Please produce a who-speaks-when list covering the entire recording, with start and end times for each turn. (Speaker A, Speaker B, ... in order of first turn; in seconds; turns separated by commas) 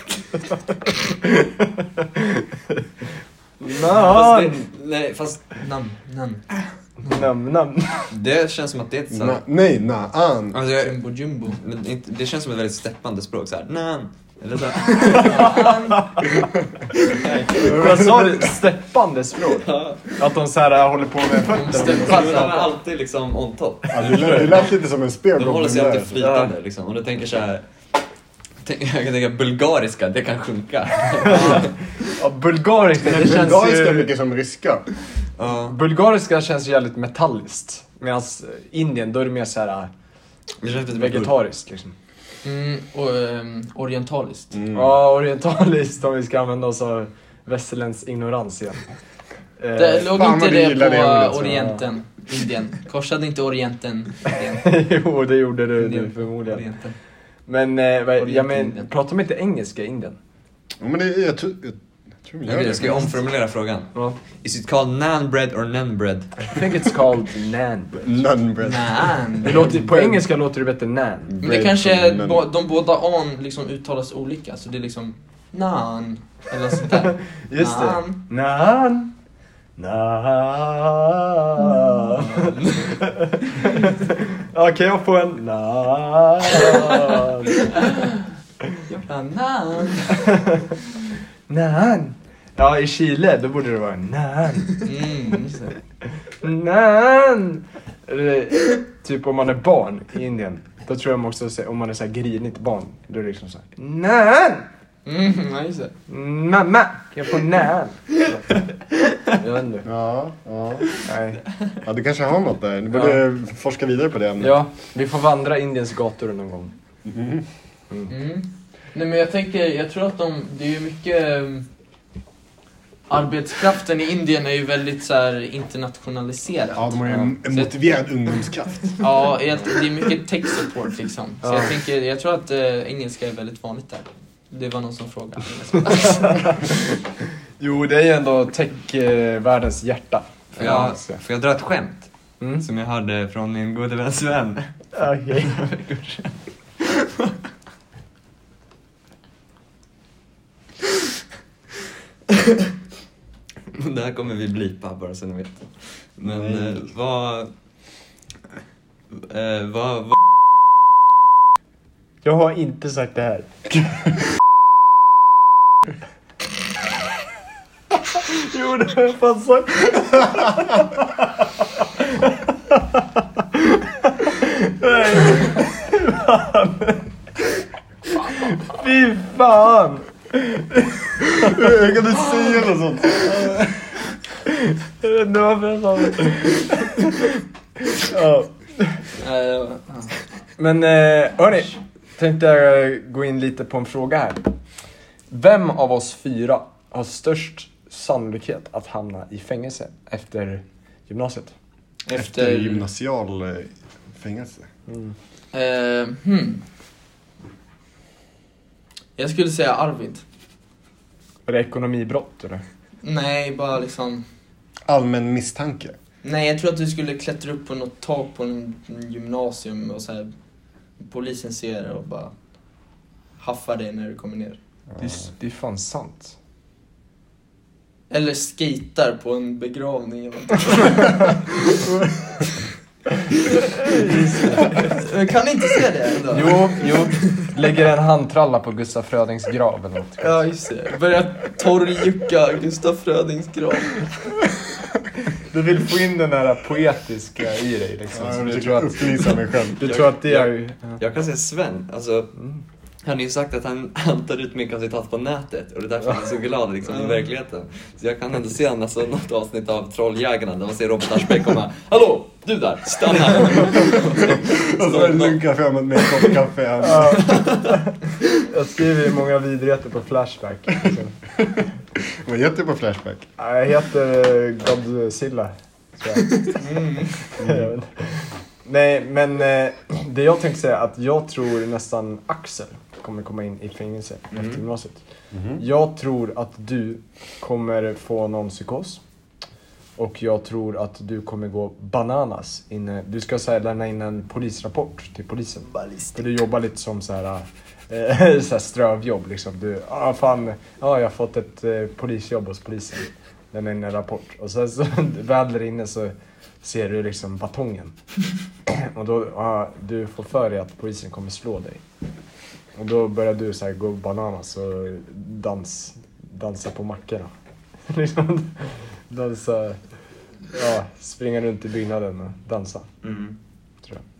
Speaker A: 1.1-2.8, Speaker A: 3.6-4.6, Speaker B: 3.8-5.5, Speaker C: 5.5-6.4, Speaker A: 7.0-8.1, Speaker B: 8.1-9.4, Speaker D: 9.1-10.6, Speaker B: 10.5-15.8, Speaker C: 10.7-11.6, Speaker C: 15.0-16.1, Speaker A: 15.1-16.3, Speaker D: 16.4-16.7, Speaker B: 17.0-17.8, Speaker D: 17.6-18.6, Speaker A: 17.6-22.6, Speaker B: 19.6-20.1, Speaker D: 21.3-21.9, Speaker C: 21.5-22.7, Speaker B: 21.8-24.7, Speaker A: 23.9-24.5, Speaker D: 23.9-26.2, Speaker B: 25.4-27.6, Speaker A: 26.1-26.5, Speaker B: 28.6-31.7, Speaker A: 31.2-34.1, Speaker D: 33.0-34.9, Speaker B: 35.4-35.8, Speaker A: 35.6-39.9, Speaker B: 40.6-41.4, Speaker A: 40.9-41.9, Speaker C: 42.4-44.5, Speaker D: 44.5-44.9, Speaker A: 44.7-48.8, Speaker A: 49.6-50.1, Speaker C: 49.8-54.6, Speaker D: 50.0-51.8, Speaker A: 54.6-56.6, Speaker C: 55.8-57.0, Speaker A: 57.5-60.2, Speaker C: 58.2-58.9, Speaker D: 60.8-63.1, Speaker B: 62.4-66.5, Speaker C: 62.8-63.1, Speaker A: 66.5-68.0, Speaker D: 67.9-69.3, Speaker C: 68.6-69.8, Speaker A: 69.4-71.3, Speaker D: 71.3-72.5, Speaker C: 71.4-78.2, Speaker A: 77.4-79.1, Speaker A: 79.8-87.7, Speaker C: 87.6-88.2, Speaker C: 88.9-90.3, Speaker A: 90.3-90.7, Speaker A: 91.5-94.9, Speaker C: 94.8-95.8, Speaker A: 96.4-104.7, Speaker C: 105.0-105.9, Speaker A: 106.1-108.2, Speaker A: 109.4-109.9, Speaker D: 109.8-110.9, Speaker A: 111.0-111.4, Speaker D: 111.8-114.5, Speaker A: 112.9-113.2, Speaker A: 114.4-116.7, Speaker D: 117.0-117.5, Speaker C: 118.1-121.7, Speaker C: 123.1-127.7, Speaker D: 126.7-129.3, Speaker C: 129.0-136.6, Speaker A: 131.4-131.7, Speaker A: 135.9-137.0, Speaker A: 137.6-141.2, Speaker B: 140.5-144.7, Speaker A: 142.4-142.7, Speaker A: 144.9-146.0, Speaker B: 145.4-146.3, Speaker B: 153.7-157.5, Speaker D: 156.2-156.8, Speaker B: 159.1-160.2, Speaker A: 162.2-163.5, Speaker A: 168.2-171.2, Speaker A: 172.0-177.1, Speaker A: 178.2-181.7, Speaker D: 181.4-183.9, Speaker A: 184.5-187.2, Speaker A: 187.9-188.9, Speaker C: 189.1-190.1, Speaker A: 190.6-194.5, Speaker A: 195.3-201.5, Speaker C: 202.1-202.8, Speaker D: 202.1-204.7, Speaker A: 204.9-205.1, Speaker C: 205.5-206.6, Speaker C: 209.2-210.2, Speaker A: 211.5-212.6, Speaker C: 213.0-214.2, Speaker D: 214.9-215.9, Speaker C: 216.2-220.3, Speaker C: 221.0-222.3, Speaker C: 223.4-224.6, Speaker D: 224.9-225.2, Speaker A: 225.0-226.3, Speaker C: 228.1-231.8, Speaker C: 233.5-237.5, Speaker A: 233.8-234.9, Speaker A: 236.3-240.4, Speaker C: 240.2-244.2, Speaker A: 245.4-249.1, Speaker D: 248.1-249.9, Speaker A: 249.8-251.0, Speaker B: 249.8-252.3, Speaker A: 252.3-252.6, Speaker B: 253.0-265.4, Speaker C: 256.9-257.2, Speaker D: 263.8-267.4, Speaker A: 266.8-271.1, Speaker B: 267.2-267.6, Speaker D: 271.4-273.3, Speaker A: 273.4-276.6, Speaker C: 276.5-277.1, Speaker A: 277.4-285.0, Speaker D: 277.4-277.7, Speaker B: 284.3-284.6, Speaker D: 285.3-285.6, Speaker A: 285.6-289.0, Speaker A: 290.0-307.9, Speaker C: 295.7-296.1, Speaker A: 308.7-311.8, Speaker A: 312.8-317.3, Speaker A: 317.9-319.8, Speaker A: 320.5-322.9, Speaker B: 323.0-323.4